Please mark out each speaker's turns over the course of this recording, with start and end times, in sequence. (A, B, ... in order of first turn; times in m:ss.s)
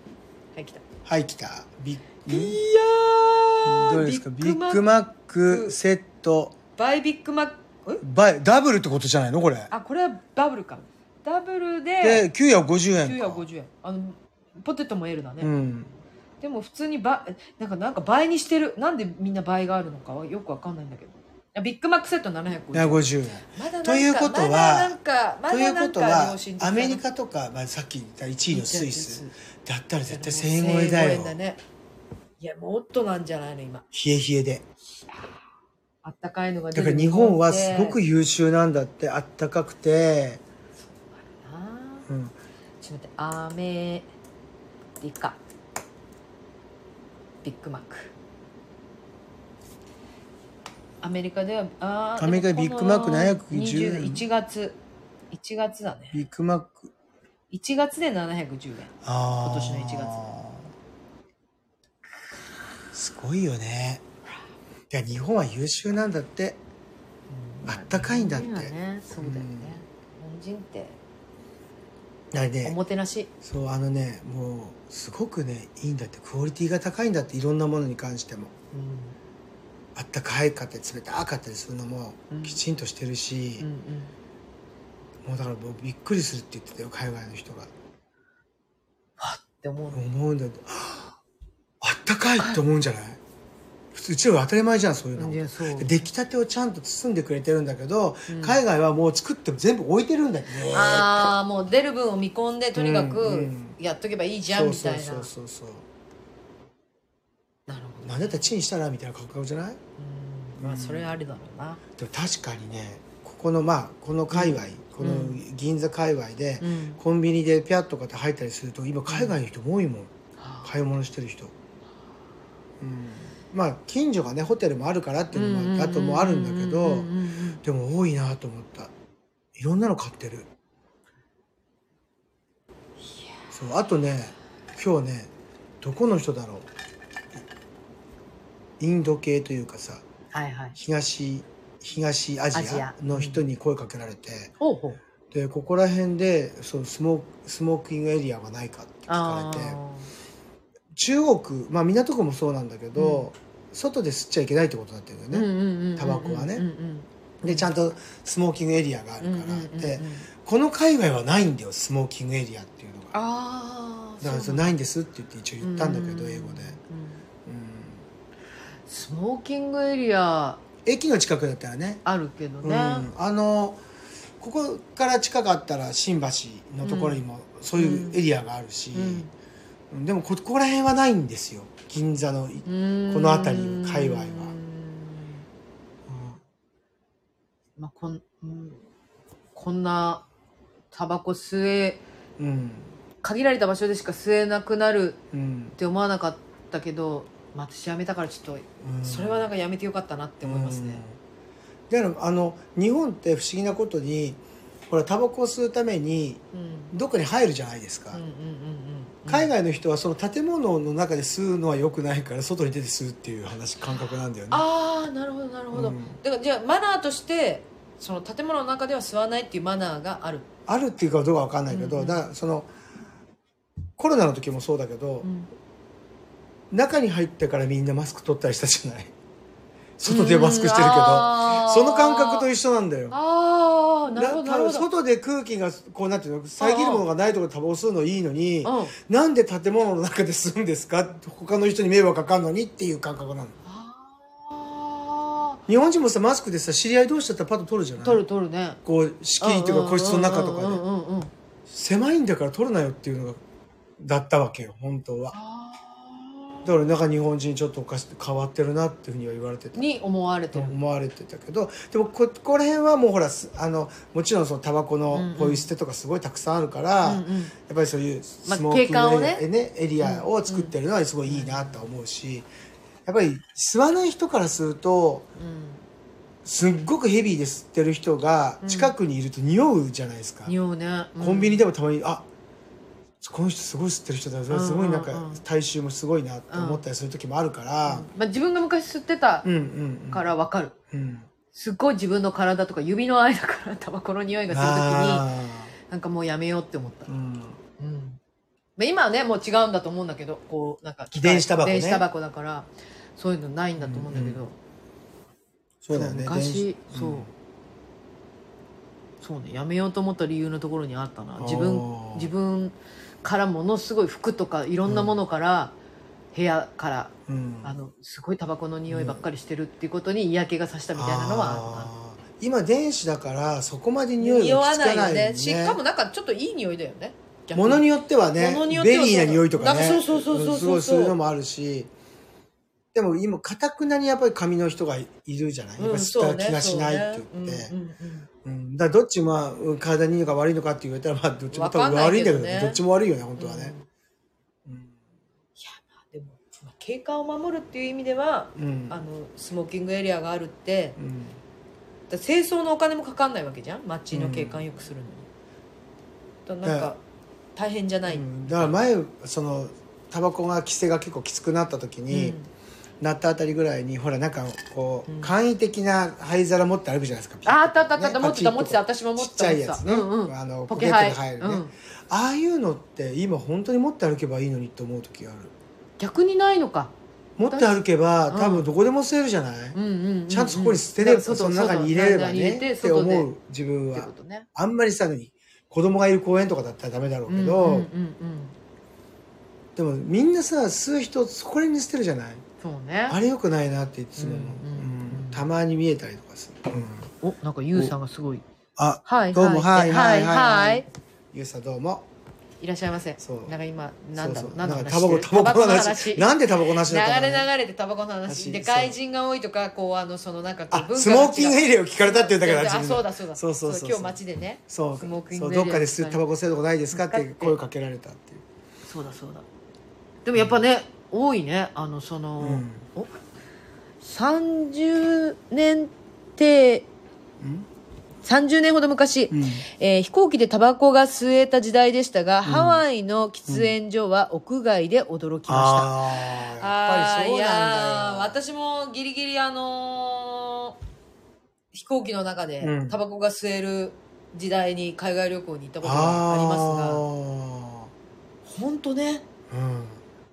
0:00.6-0:00.8 A
0:01.0-0:02.6 B
0:02.3-0:04.8 A
0:03.6-0:06.6 B
0:05.5-0:05.8 A
0:06.8-0:08.0 A
0:08.0-0:09.7 B
0:09.7-0:12.3 A
0:12.0-0:13.4 B
0:13.0-0:15.5 A
0:15.4-0:16.0 B
0:16.4-0:27.0 A
0:22.7-0:25.0 B
0:25.5-0:31.4 B
0:28.5-0:29.4 A
0:30.1-0:31.6 A
0:32.4-0:33.8 A
0:33.9-0:34.7 B
0:34.9-0:35.3 A
0:36.0-0:38.0 A
0:36.8-0:40.4 B
0:40.9-0:42.1 A
0:42.1-0:42.4 B
0:42.8-0:44.1 A
0:45.0-0:45.4 A
0:47.4-0:48.1 A
0:51.0-0:54.8 A
0:52.2-0:54.2 B
0:55.3-0:56.2 A
0:56.1-0:56.9 B
0:57.5-1:00.3 A
0:59.0-1:00.7 B
1:02.9-1:04.0 B
1:04.9-1:06.6 B
1:07.3-1:11.0 A
1:07.6-1:09.8 B
1:12.3-1:12.8 B
1:12.6-1:13.3 A
1:13.4-1:18.5 B
1:18.7-1:19.2 A
1:20.0-1:23.7 B
1:22.3-1:22.6 A
1:23.6-1:24.1 A
1:25.2-1:27.7 B
1:29.2-1:30.0 A
1:29.9-1:31.2 B
1:31.8-1:33.2 B
1:33.9-1:41.3 B
1:35.2-1:35.9 A
1:38.3-1:38.6 A
1:40.7-1:45.3 A
1:42.8-1:43.8 B
1:44.5-1:45.9 B
1:47.7-1:48.5 A
1:48.0-1:49.8 B
1:50.0-1:51.8 A
1:50.6-1:51.2 B
1:52.0-2:00.1 B
1:54.3-1:55.4 A
1:56.6-1:57.0 A
1:59.1-1:59.4 A
2:00.4-2:00.7 A
2:00.6-2:01.5 B
2:02.8-2:08.9 B
2:05.3-2:07.6 A
2:09.6-2:10.5 B
2:13.5-2:16.7 B
2:18.8-2:20.0 B
2:20.3-2:20.8 A
2:20.8-2:24.5 B
2:22.6-2:23.4 A
2:24.6-2:25.0 A
2:25.3-2:29.8 B
2:29.1-2:30.1 A
2:30.9-2:36.7 B
2:33.0-2:33.3 A
2:35.3-2:37.7 A
2:37.4-2:43.1 B
2:39.2-2:40.3 A
2:43.1-2:44.7 A
2:44.2-2:46.8 B
2:45.6-2:47.2 A
2:47.5-2:48.0 B
2:48.9-2:50.6 A
2:50.8-2:52.0 B
2:52.0-2:53.1 A
2:52.6-2:53.8 B
2:54.4-2:59.2 B
2:56.8-2:57.2 A
2:57.8-2:58.2 A
2:58.9-2:59.3 A
2:59.9-3:04.5 B
3:02.7-3:05.4 A
3:06.1-3:06.4 B
3:07.8-3:08.8 A
3:09.6-3:10.3 A
3:10.9-3:12.0 A
3:12.4-3:12.9 B
3:13.2-3:15.2 A
3:15.3-3:15.8 B
3:15.8-3:21.0 A
3:18.8-3:19.5 B
3:20.4-3:21.2 B
3:21.9-3:28.2 B
3:26.5-3:26.9 A
3:28.1-3:29.5 A
3:29.3-3:34.6 B
3:34.5-3:40.5 A
3:35.7-3:36.2 B
3:40.7-3:42.7 B
3:41.7-3:42.3 A
3:44.0-3:45.3 B
3:45.2-3:45.5 A
3:46.7-3:49.1 B
3:50.0-3:53.2 B
3:50.1-3:52.5 A
3:53.1-3:54.9 A
3:54.2-4:03.6 B
3:56.6-3:57.1 A
3:58.6-3:59.0 A
4:03.6-4:05.6 A
4:05.7-4:08.2 B
4:08.0-4:08.8 A
4:08.8-4:10.8 B
4:09.4-4:11.3 A
4:11.7-4:13.4 B
4:14.0-4:15.4 B
4:15.3-4:16.7 A
4:16.6-4:19.8 B
4:19.8-4:20.8 A
4:20.5-4:32.5 B
4:25.1-4:25.7 A
4:27.0-4:27.6 A
4:28.4-4:29.5 A
4:30.0-4:30.8 A
4:31.3-4:31.8 A
4:33.1-4:35.3 B
4:35.4-4:35.8 A
4:36.4-4:40.5 B
4:38.6-4:38.9 A
4:40.5-4:41.6 A
4:41.2-4:42.3 B
4:43.2-4:48.1 B
4:44.5-4:45.4 A
4:46.5-4:46.8 A
4:47.8-4:49.5 A
4:49.4-4:50.3 B
4:50.1-4:50.8 A
4:50.9-4:51.3 B
4:51.5-4:55.3 A
4:54.5-4:55.7 B
4:55.8-4:57.1 A
4:57.1-4:57.6 B
4:57.8-4:58.2 A
4:58.8-5:04.6 A
5:01.1-5:02.1 B
5:03.8-5:04.4 B
5:05.8-5:07.3 B
5:05.9-5:07.3 A
5:09.2-5:15.8 A
5:11.4-5:12.3 B
5:14.9-5:15.2 B
5:16.3-5:17.1 A
5:17.3-5:17.8 B
5:17.6-5:21.9 A
5:18.9-5:19.3 B
5:21.0-5:25.8 B
5:24.2-5:27.9 A
5:27.5-5:31.9 B
5:28.4-5:31.2 A
5:32.9-5:37.7 B
5:35.8-5:38.3 A
5:38.4-5:43.7 B
5:41.5-5:42.8 A
5:43.4-5:43.8 A
5:44.7-5:45.0 B
5:45.6-5:51.0 A
5:48.6-5:49.0 B
5:51.0-5:51.4 B
5:52.1-5:55.3 A
5:54.1-5:54.7 B
5:56.5-5:57.0 A
5:56.6-5:56.9 B
5:57.6-5:58.8 A
5:58.1-6:02.4 B
6:02.1-6:02.5 A
6:03.0-6:15.5 B
6:07.5-6:11.7 A
6:16.0-6:16.9 A
6:17.4-6:19.8 B
6:17.5-6:17.8 A
6:18.3-6:18.7 A
6:19.7-6:23.3 A
6:20.3-6:27.9 B
6:23.9-6:24.5 A
6:27.3-6:28.6 A
6:29.8-6:32.4 B
6:32.6-6:33.2 A
6:33.1-6:37.1 B
6:34.2-6:35.5 A
6:37.2-6:38.4 A
6:38.8-6:42.1 B
6:39.0-6:40.9 A
6:42.6-6:46.3 A
6:43.2-6:43.5 B
6:44.2-6:47.5 B
6:46.8-6:56.2 A
6:48.3-6:49.0 B
6:50.7-6:54.2 B
6:54.7-6:58.4 B
6:56.9-6:57.6 A
6:58.9-6:59.5 A
7:00.2-7:03.1 A
7:00.4-7:00.6 B
7:02.4-7:02.9 B
7:04.0-7:06.9 A
7:07.4-7:07.7 B
7:08.2-7:20.8 A
7:09.3-7:09.6 B
7:12.4-7:12.8 B
7:13.5-7:13.8 B
7:15.5-7:18.4 B
7:21.7-7:27.1 A
7:22.6-7:23.0 B
7:25.8-7:27.9 B
7:28.4-7:29.3 A
7:29.5-7:30.0 B